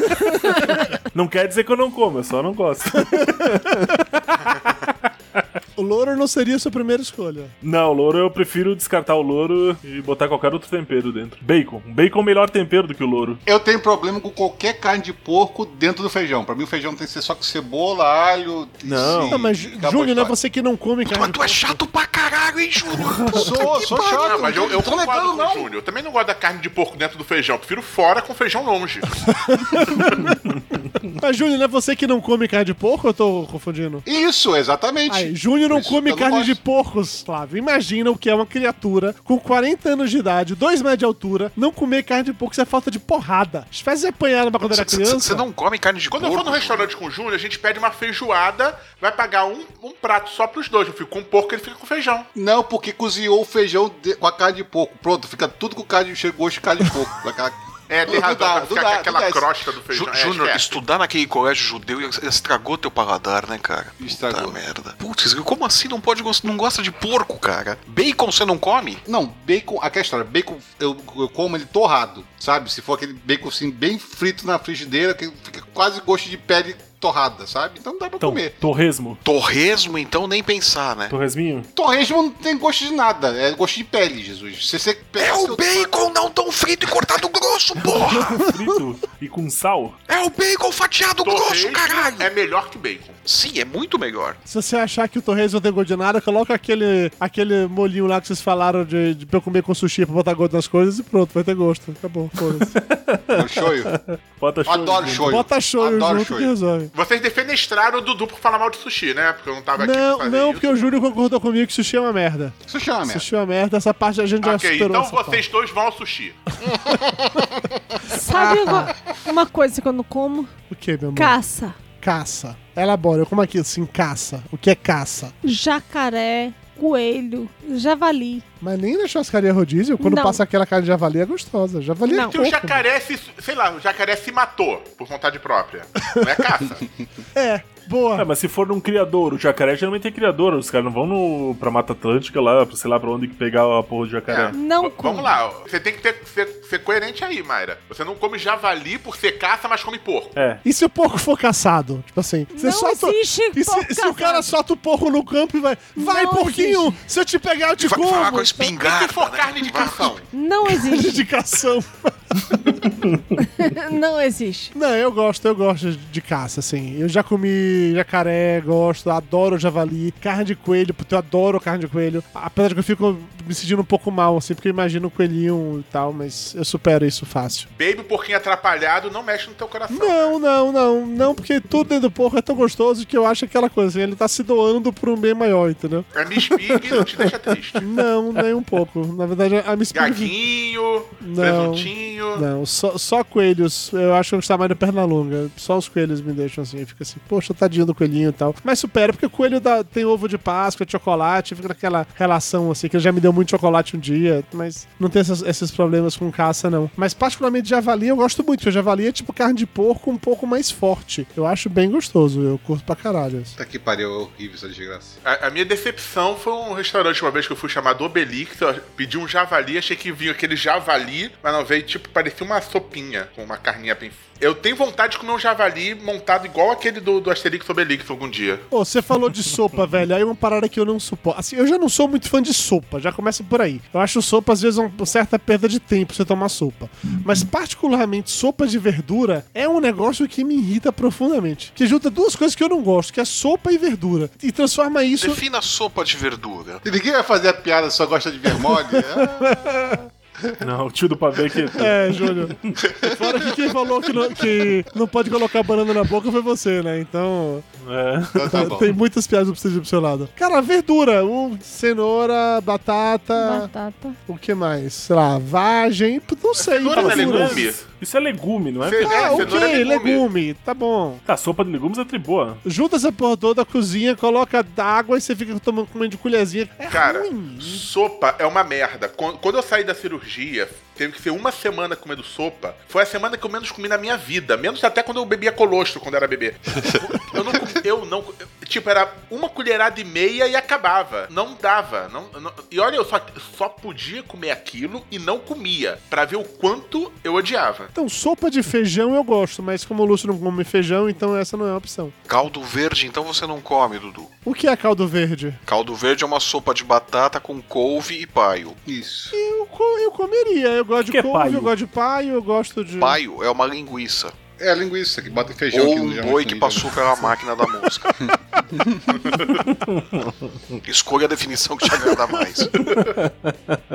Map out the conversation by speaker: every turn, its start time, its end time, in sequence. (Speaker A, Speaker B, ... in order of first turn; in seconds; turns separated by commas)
Speaker A: 0.1-0.8, Speaker B: 0.5-4.0, Speaker A: 3.0-4.0, Speaker A: 5.8-7.5, Speaker B: 7.6-13.4, Speaker C: 13.4-20.3, Speaker B: 18.8-19.4, Speaker A: 19.1-21.8, Speaker D: 21.1-24.8, Speaker A: 23.0-24.0, Speaker C: 23.3-25.7, Speaker E: 24.2-29.1, Speaker A: 29.3-30.3, Speaker A: 31.2-34.0, Speaker C: 34.0-36.6, Speaker A: 35.1-45.5, Speaker D: 44.7-46.9, Speaker E: 46.1-52.3, Speaker C: 52.3-59.5, Speaker E: 57.9-60.8, Speaker D: 59.9-69.0, Speaker C: 64.0-64.6, Speaker C: 69.1-78.5, Speaker B: 78.2-79.2, Speaker D: 79.2-81.1, Speaker B: 81.1-81.7, Speaker C: 81.7-85.9, Speaker D: 85.2-88.4, Speaker B: 87.8-90.0, Speaker A: 88.1-88.8, Speaker D: 90.1-92.3, Speaker E: 91.2-93.2, Speaker D: 93.2-94.4, Speaker A: 94.5-102.8, Speaker B: 102.5-105.4, Speaker C: 103.3-103.9, Speaker C: 104.6-106.5, Speaker A: 105.2-106.9, Speaker E: 106.9-110.9, Speaker A: 109.8-115.4, Speaker C: 112.7-113.2, Speaker E: 114.4-116.4, Speaker C: 116.7-117.5, Speaker F: 118.1-120.5, Speaker A: 118.3-118.9, Speaker A: 120.7-121.3, Speaker F: 121.1-121.8, Speaker A: 122.0-125.3, Speaker F: 125.4-128.4, Speaker A: 128.6-132.8, Speaker F: 130.0-130.4, Speaker F: 132.1-132.4, Speaker E: 132.3-136.8, Speaker A: 136.1-136.5, Speaker A: 137.3-138.3, Speaker B: 138.2-144.6, Speaker E: 144.3-150.3, Speaker F: 144.5-145.3, Speaker B: 150.3-150.6, Speaker A: 150.6-158.5, Speaker F: 152.5-154.5, Speaker F: 155.9-157.0, Speaker D: 157.8-160.2, Speaker F: 158.1-158.7, Speaker E: 158.8-160.2, Speaker F: 160.3-161.2, Speaker A: 160.6-162.4, Speaker F: 163.4-164.7, Speaker A: 164.7-177.7, Speaker E: 177.7-180.4, Speaker A: 179.9-190.3, Speaker E: 186.1-187.9, Speaker E: 189.9-192.4, Speaker A: 191.2-213.5, Speaker C: 213.6-215.2, Speaker E: 215.2-228.6, Speaker A: 228.7-245.4, Speaker D: 245.2-246.8, Speaker C: 246.8-249.5, Speaker A: 248.6-250.1, Speaker B: 250.6-252.7, Speaker A: 251.7-257.6, Speaker C: 252.9-253.2, Speaker B: 257.8-258.8, Speaker C: 258.4-258.9, Speaker A: 258.5-263.7, Speaker F: 263.4-264.2, Speaker A: 264.3-267.6, Speaker E: 266.6-267.8, Speaker B: 266.7-269.6, Speaker E: 268.8-270.2, Speaker A: 269.0-271.2, Speaker B: 271.3-272.6, Speaker A: 272.6-277.9, Speaker E: 276.9-297.9, Speaker A: 297.9-302.1, Speaker D: 302.3-304.3, Speaker A: 304.4-305.6, Speaker D: 305.6-308.8, Speaker C: 308.9-309.3, Speaker A: 309.3-313.2, Speaker B: 311.0-311.7, Speaker D: 313.0-314.3, Speaker C: 314.6-317.3, Speaker D: 315.7-318.1, Speaker C: 318.2-319.4, Speaker B: 319.7-320.0, Speaker D: 320.8-322.8, Speaker B: 322.8-323.8